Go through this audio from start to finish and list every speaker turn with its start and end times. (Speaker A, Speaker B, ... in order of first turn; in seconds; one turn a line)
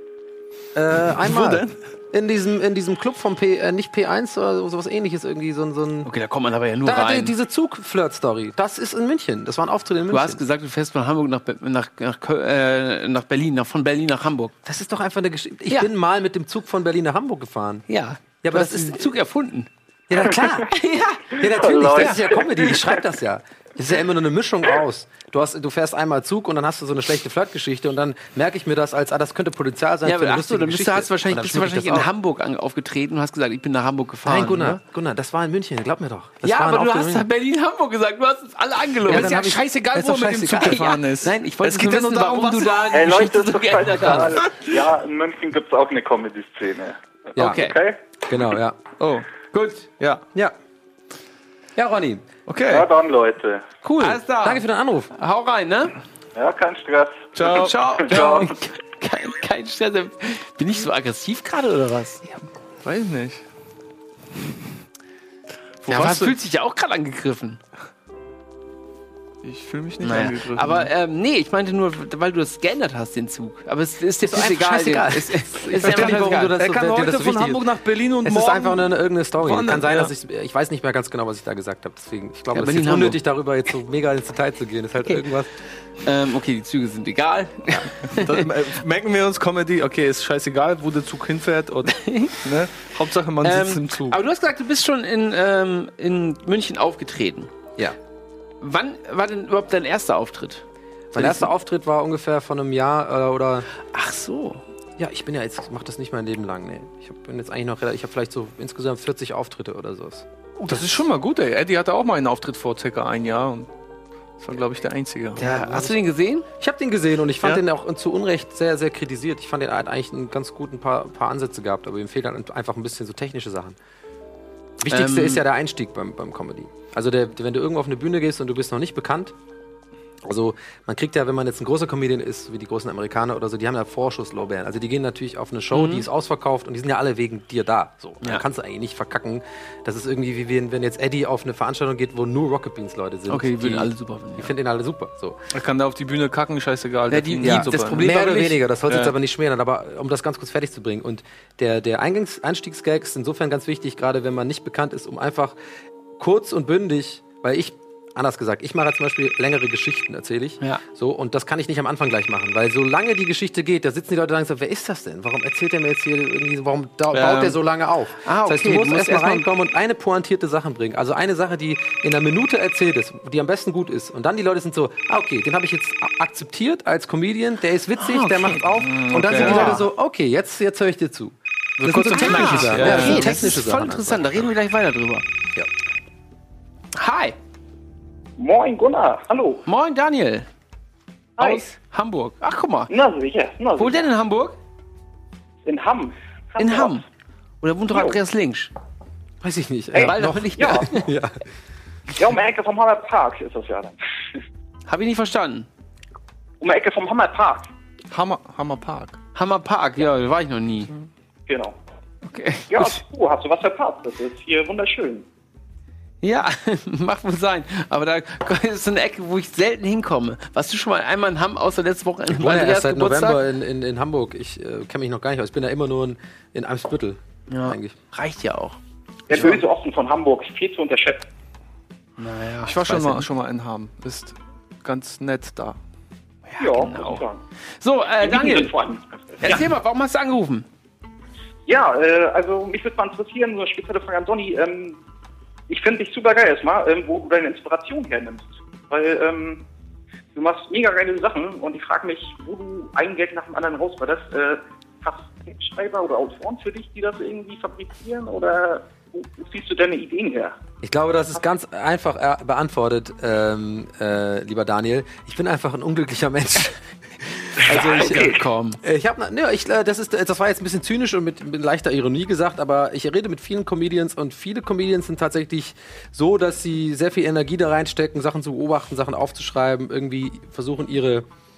Speaker A: 0.7-6.1
Speaker B: 1.2-1.7
Speaker C: 6.0-7.3
Speaker A: 6.8-10.4
Speaker C: 10.1-14.5
Speaker A: 14.6-17.9
Speaker C: 17.9-19.7
Speaker A: 18.4-19.1
Speaker A: 20.1-20.7
Speaker C: 20.6-22.4
Speaker A: 21.3-32.1
Speaker C: 30.1-34.8
Speaker A: 34.2-37.2
Speaker C: 36.4-44.5
Speaker A: 39.1-40.9
Speaker B: 39.1-42.9
Speaker D: 42.9-48.0
Speaker A: 47.4-47.6
Speaker C: 47.4-47.8
Speaker A: 48.3-48.8
Speaker B: 49.0-49.3
Speaker C: 49.5-49.9
Speaker B: 50.0-50.2
Speaker A: 51.8-52.3
Speaker B: 52.5-52.9
Speaker D: 52.7-53.6
Speaker A: 53.8-55.1
Speaker C: 54.0-54.6
Speaker C: 55.1-55.9
Speaker D: 56.4-57.3
Speaker B: 57.4-58.5
Speaker C: 57.4-62.4
Speaker D: 58.1-58.5
Speaker B: 62.9-63.4
Speaker B: 65.8-66.4
Speaker C: 65.9-67.6
Speaker B: 69.4-70.9
Speaker C: 70.0-76.5
Speaker A: 74.2-77.7
Speaker B: 75.8-80.1
Speaker A: 78.2-85.5
Speaker C: 82.5-83.2
Speaker C: 86.0-88.5
Speaker B: 88.1-91.9
Speaker C: 91.8-92.4
Speaker B: 92.4-94.2
Speaker C: 93.4-97.5
Speaker C: 98.6-100.6
Speaker A: 101.1-103.7
Speaker C: 101.1-101.5
Speaker C: 103.9-104.6
Speaker A: 105.0-110.8
Speaker B: 110.6-113.7
Speaker B: 114.4-115.7
Speaker C: 115.4-116.5
Speaker A: 116.6-123.8
Speaker A: 124.8-129.3
Speaker C: 124.9-125.4
Speaker A: 130.2-145.4
Speaker C: 135.7-136.1
Speaker C: 143.3-144.5
Speaker B: 145.5-148.1
Speaker C: 147.1-148.6
Speaker A: 147.4-155.6
Speaker A: 156.2-184.4
Speaker B: 167.1-167.5
Speaker C: 168.2-169.4
Speaker C: 178.0-178.6
Speaker B: 178.8-179.8
Speaker C: 179.3-179.9
Speaker C: 181.8-185.2
Speaker B: 182.0-183.4
Speaker C: 186.9-187.4
Speaker E: 188.4-189.6
Speaker C: 189.7-190.5
Speaker E: 191.4-191.7
Speaker C: 191.4-192.9
Speaker E: 192.9-194.1
Speaker C: 193.8-194.6
Speaker E: 195.6-197.0
Speaker C: 196.6-197.0
Speaker C: 197.6-198.7
Speaker E: 197.9-198.2
Speaker A: 199.4-201.4
Speaker E: 199.9-200.9
Speaker C: 199.9-201.1
Speaker E: 202.2-203.9
Speaker C: 204.9-205.7
Speaker E: 206.6-207.7
Speaker B: 208.1-209.2
Speaker C: 209.3-210.9
Speaker E: 211.5-211.8
Speaker C: 212.2-213.0
Speaker E: 212.7-215.3
Speaker C: 216.2-223.4
Speaker A: 222.3-228.0
Speaker C: 227.5-228.8
Speaker E: 229.3-231.2
Speaker C: 229.3-229.6
Speaker C: 232.2-233.3
Speaker B: 232.6-235.8
Speaker C: 236.5-237.2
Speaker E: 236.6-237.4
Speaker C: 237.8-238.7
Speaker E: 238.2-239.6
Speaker C: 239.4-240.7
Speaker E: 241.7-245.0
Speaker E: 245.7-249.6
Speaker E: 250.3-260.6
Speaker A: 260.8-281.2
Speaker C: 267.6-268.8